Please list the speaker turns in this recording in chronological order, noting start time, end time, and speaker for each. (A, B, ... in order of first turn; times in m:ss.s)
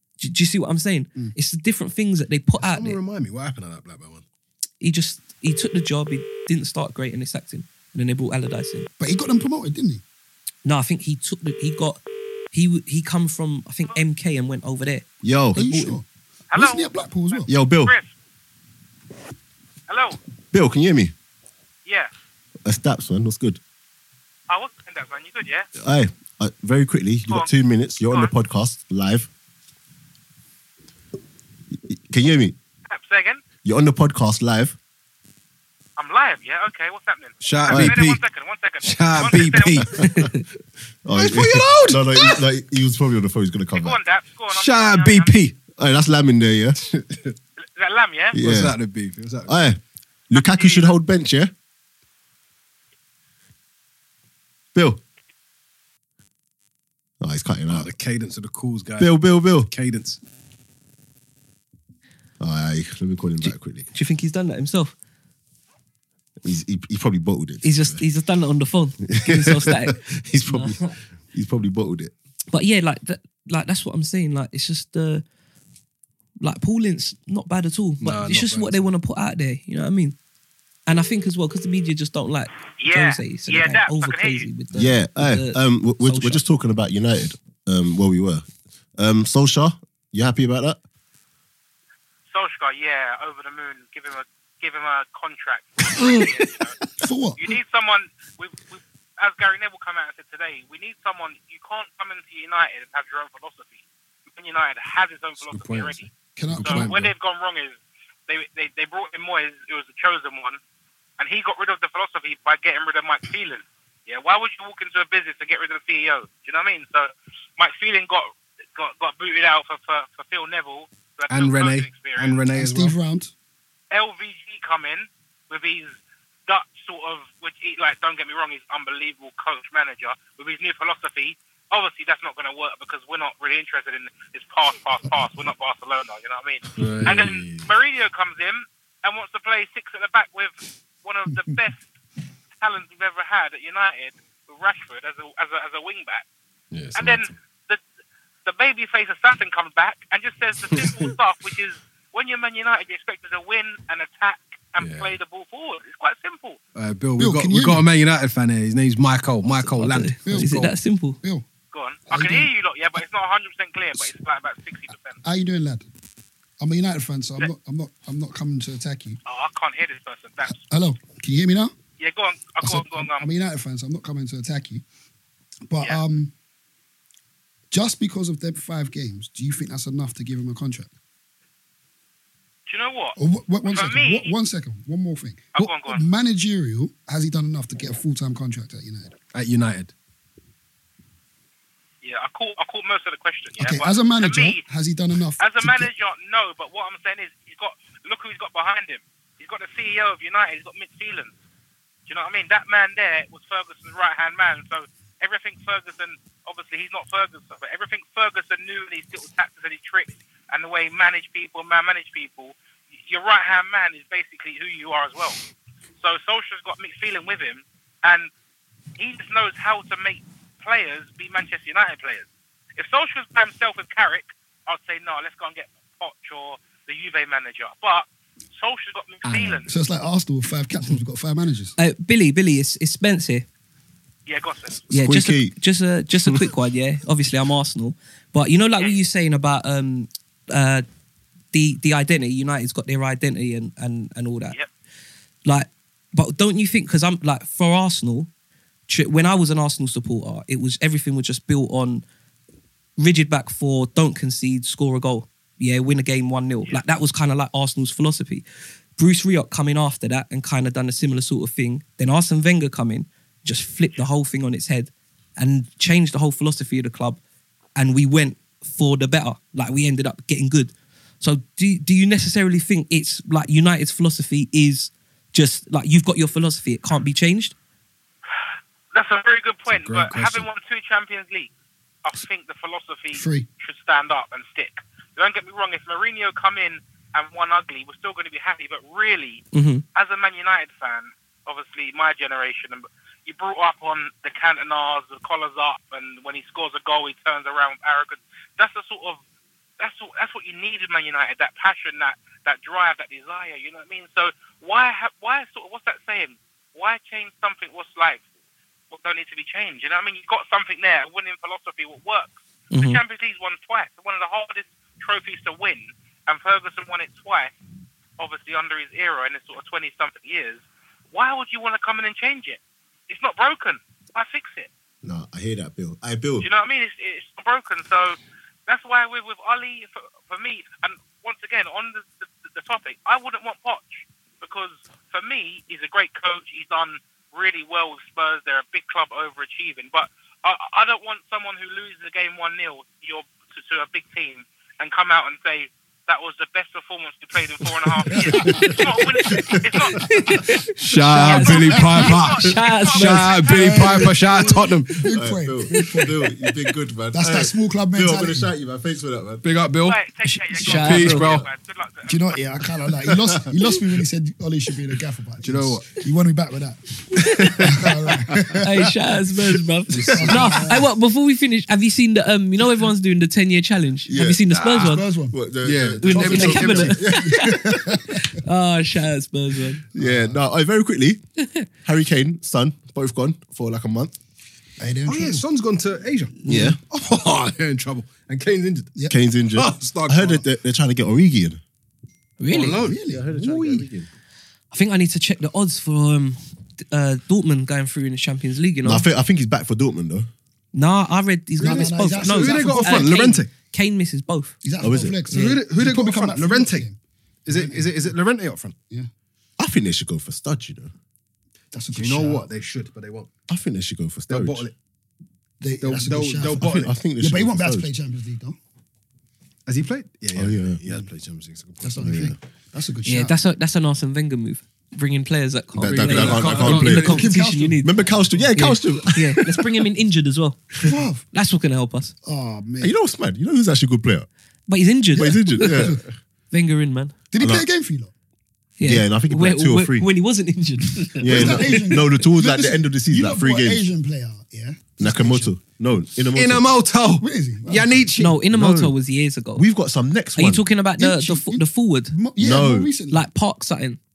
0:00.2-0:03.0 A
0:02.6-0:04.2 B
0:04.8-0:08.9 A
0:09.0-0:10.0 C
0:10.6-0:12.0 A
0:12.5-0:16.0 A
0:15.2-0:15.6 D
0:15.5-0:17.5 C
0:16.5-0:18.1 E
0:17.5-0:17.9 D
0:19.9-0:20.2 E
0:20.5-0:21.1 D
0:21.8-0:22.1 E
0:22.6-0:23.6 D
0:24.5-0:25.7 E
0:25.8-0:29.3 D
0:31.7-0:32.6 D
0:32.9-0:33.4 E
0:33.6-0:34.8 D
0:36.0-0:40.1 E
0:37.4-0:38.2 B
0:37.7-0:38.0 D
0:38.8-0:40.1 B
0:40.0-0:40.4 A
0:41.0-0:44.0 D
0:41.1-0:42.4 B
0:43.7-0:45.4 E
0:44.5-0:45.6 B
0:45.8-0:46.8 D
0:46.9-0:47.3 B
0:47.8-0:48.4 E
0:48.3-0:48.8 D
0:48.4-0:49.6 B
0:49.5-0:51.5 D
0:50.3-0:50.9 E
0:54.7-0:55.0 D
0:57.2-0:57.9 D
0:57.7-1:00.2 B
0:59.0-0:59.7 D
1:02.4-1:03.8 D
1:03.4-1:04.9 A
1:06.4-1:08.0 D
1:07.6-1:10.9 A
1:09.0-1:12.1 D
1:12.5-1:15.2 A
1:16.4-1:20.2 A
1:18.0-1:18.9 B
1:20.8-1:26.4 A
1:22.8-1:24.5 E
1:24.7-1:28.4 D
1:29.0-1:30.8 D
1:32.3-1:36.8 E
1:36.0-1:37.6 C
1:37.4-1:50.6 E
1:45.5-1:47.1 B
1:46.4-1:46.9 C
1:51.2-2:02.4 E
2:01.3-2:03.0 B
2:02.5-2:03.3 C
2:03.9-2:21.8 E
2:16.8-2:17.7 B
2:22.6-2:26.2 E
2:26.7-2:27.3 B
2:26.9-2:27.8 E
2:28.4-2:36.6 E
2:30.7-2:31.1 B
2:34.8-2:35.1 B
2:36.8-2:40.7 B
2:37.2-2:37.8 C
2:39.5-2:41.2 A
2:40.2-2:40.7 C
2:41.7-2:45.2 E
2:42.1-2:42.5 C
2:45.2-2:45.9 C
2:46.6-2:49.2 C
2:49.2-2:50.6 E
2:50.5-2:51.7 C
2:52.0-2:53.3 E
2:52.6-2:54.8 C
2:55.7-2:56.3 C
2:57.7-3:00.9 C
3:02.7-3:04.3 E
3:03.2-3:09.1 C
3:05.5-3:06.0 E
3:09.3-3:09.9 B
3:12.0-3:14.6 E
3:13.6-3:15.9 C
3:15.4-3:21.3 E
3:22.1-3:32.5 E
3:33.0-3:35.4 E
3:36.0-3:38.3 E
3:39.0-3:49.7 E
3:49.3-3:49.6 B
3:49.6-3:51.7 C
3:51.8-3:53.4 A
3:54.3-3:54.8 E
3:54.8-3:55.5 D
3:54.9-4:00.8 A
4:01.5-4:04.6 A
4:05.4-4:08.3 A
4:08.9-4:12.0 A
4:13.0-4:18.4 A
4:19.0-4:27.2 A
4:27.8-4:37.5 A
4:38.9-4:41.5 E
4:39.7-4:40.5 B
4:42.0-4:49.4 E
4:43.1-4:43.5 C
4:49.5-4:49.8 A
4:49.9-4:59.2 E
4:59.8-5:08.2 E
5:08.9-5:17.5 E
5:12.7-5:13.0 A
5:18.2-5:24.7 E
5:25.0-5:26.5 D
5:26.4-5:50.1 E
5:48.1-5:48.8 C
5:49.3-5:49.6 D
5:50.0-5:53.4 A
5:50.8-5:55.0 B
5:51.1-5:51.9 C
5:51.2-5:54.1 E
5:53.5-5:56.3 C
5:55.1-5:59.4 D
5:57.1-5:58.5 C
5:59.4-6:00.0 B
5:59.8-6:02.4 E
6:00.5-6:01.3 A
6:00.5-6:01.5 B
6:00.8-6:01.0 C
6:02.1-6:08.9 C
6:03.1-6:03.5 D
6:05.4-6:06.0 B
6:08.5-6:15.0 A
6:09.9-6:10.7 B
6:10.0-6:10.9 C
6:14.0-6:14.6 D
6:14.5-6:15.0 B
6:14.7-6:15.4 C
6:15.3-6:18.0 D
6:15.6-6:17.1 B
6:16.0-6:19.8 A
6:17.1-6:18.3 C
6:19.9-6:20.4 C
6:19.9-6:21.2 D
6:21.8-6:24.1 D
6:24.8-6:25.4 C
6:25.0-6:28.9 B
6:26.4-6:26.8 D
6:26.5-6:26.7 A
6:29.1-6:31.6 D
6:29.5-6:30.4 B
6:32.4-6:32.8 A
6:32.5-6:33.7 B
6:32.8-6:33.3 C
6:33.1-6:34.1 D
6:34.7-6:39.0 A
6:38.8-6:40.3 D
6:40.7-6:44.6 A
6:41.6-6:43.1 C
6:41.6-6:43.5 B
6:44.6-6:47.0 C
6:44.8-6:45.2 D
6:45.3-6:46.8 B
6:47.4-6:48.8 B
6:47.5-6:48.1 C
6:49.6-6:50.9 D
6:51.7-6:52.5 C
6:51.9-6:53.3 B
6:53.5-6:54.6 D
6:54.3-6:54.7 B
6:55.6-6:58.6 C
6:55.8-6:56.9 B
6:56.6-6:57.9 D
6:59.7-7:02.2 B
7:00.3-7:00.8 D
7:01.8-7:03.4 C
7:02.0-7:02.4 D
7:03.0-7:08.0 A
7:05.7-7:07.2 D
7:05.9-7:07.3 B
7:06.6-7:08.0 C
7:07.8-7:09.6 D
7:08.5-7:12.1 A
7:10.8-7:11.2 C
7:12.2-7:12.9 C
7:12.8-7:14.3 D
7:14.7-7:16.0 A
7:15.1-7:16.0 D
7:15.6-7:16.0 C
7:16.5-7:17.2 A
7:17.3-7:18.1 C
7:17.4-7:17.7 D
7:18.8-7:22.0 A
7:18.8-7:20.1 D
7:21.2-7:25.5 C
7:21.2-7:23.9 D
7:25.0-7:26.7 D
7:26.3-7:28.4 B
7:27.2-7:28.0 C
7:28.2-7:29.6 A
7:28.5-7:29.0 D
7:29.5-7:30.7 D
7:30.4-7:32.1 A
7:31.0-7:33.2 C
7:32.4-7:32.9 D
7:33.1-7:34.0 A